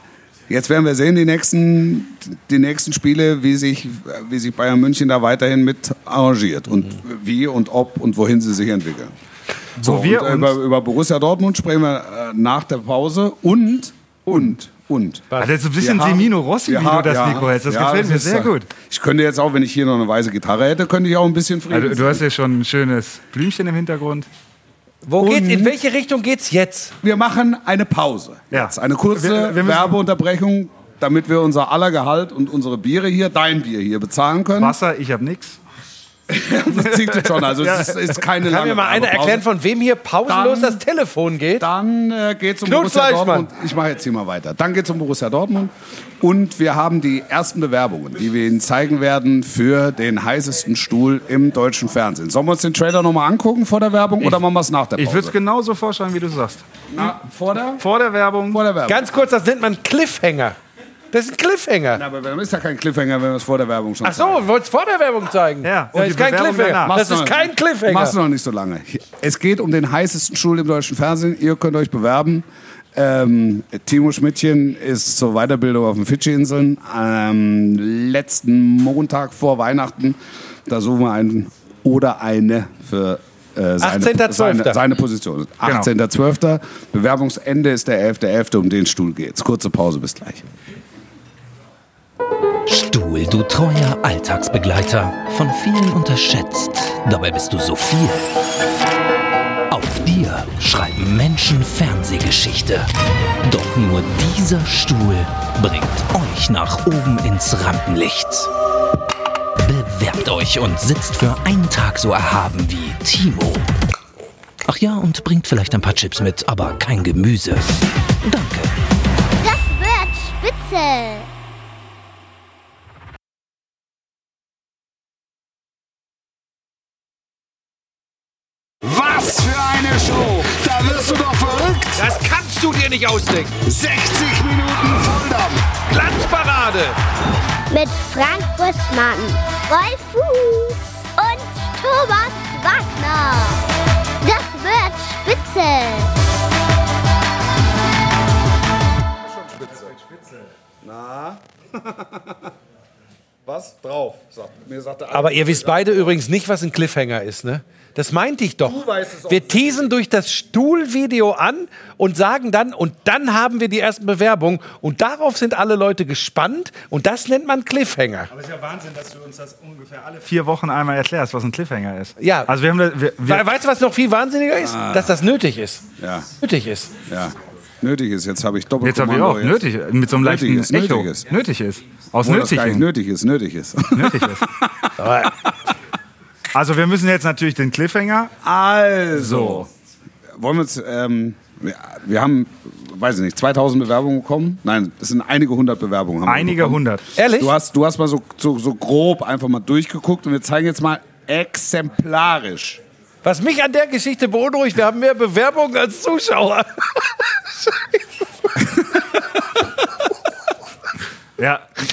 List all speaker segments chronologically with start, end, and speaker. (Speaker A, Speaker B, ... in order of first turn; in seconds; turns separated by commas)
Speaker A: 0.5-9.1, Speaker B: 9.8-10.5, Speaker A: 9.8-22.2, Speaker B: 14.3-14.5, Speaker B: 15.4-18.7, Speaker B: 21.7-24.3, Speaker C: 25.0-26.9, Speaker A: 25.2-25.7, Speaker A: 27.0-34.8, Speaker B: 28.5-30.0, Speaker B: 34.6-35.6, Speaker A: 36.3-39.5, Speaker B: 36.9-38.1, Speaker C: 38.4-41.6, Speaker A: 40.3-40.8, Speaker A: 41.6-55.3, Speaker C: 42.6-43.5, Speaker B: 55.0-56.7, Speaker A: 56.9-57.8, Speaker B: 57.8-58.6, Speaker A: 58.5-59.1, Speaker C: 58.9-60.6, Speaker C: 61.1-62.0, Speaker A: 61.9-64.5, Speaker C: 64.0-68.2, Speaker B: 65.6-66.9, Speaker A: 66.8-90.5, Speaker C: 83.8-84.8, Speaker D: 92.7-98.3, Speaker D: 99.7-102.9, Speaker D: 103.4-108.5, Speaker D: 109.6-113.7, Speaker D: 114.6-118.7, Speaker E: 119.4-121.3, Speaker A: 128.8-132.1, Speaker C: 132.0-133.6, Speaker A: 133.6-135.7, Speaker C: 135.9-137.0, Speaker E: 137.7-143.7, Speaker E: 144.2-146.1, Speaker A: 149.2-150.0, Speaker A: 150.8-152.5, Speaker A: 153.4-156.1, Speaker C: 155.1-168.3, Speaker A: 158.6-159.9, Speaker B: 168.3-173.5, Speaker C: 172.2-172.5, Speaker C: 173.2-175.9, Speaker A: 174.7-175.1, Speaker A: 176.0-176.3, Speaker C: 176.4-176.9, Speaker A: 177.1-179.6, Speaker B: 178.8-182.8, Speaker A: 180.2-181.3, Speaker A: 182.2-184.9, Speaker B: 183.9-184.4, Speaker C: 185.0-185.3, Speaker B: 186.5-188.3, Speaker A: 188.4-189.7, Speaker B: 189.1-189.7, Speaker A: 190.4-196.8, Speaker B: 196.2-197.0, Speaker C: 197.2-197.5, Speaker A: 197.4-202.8, Speaker C: 203.2-207.0, Speaker B: 211.4-211.7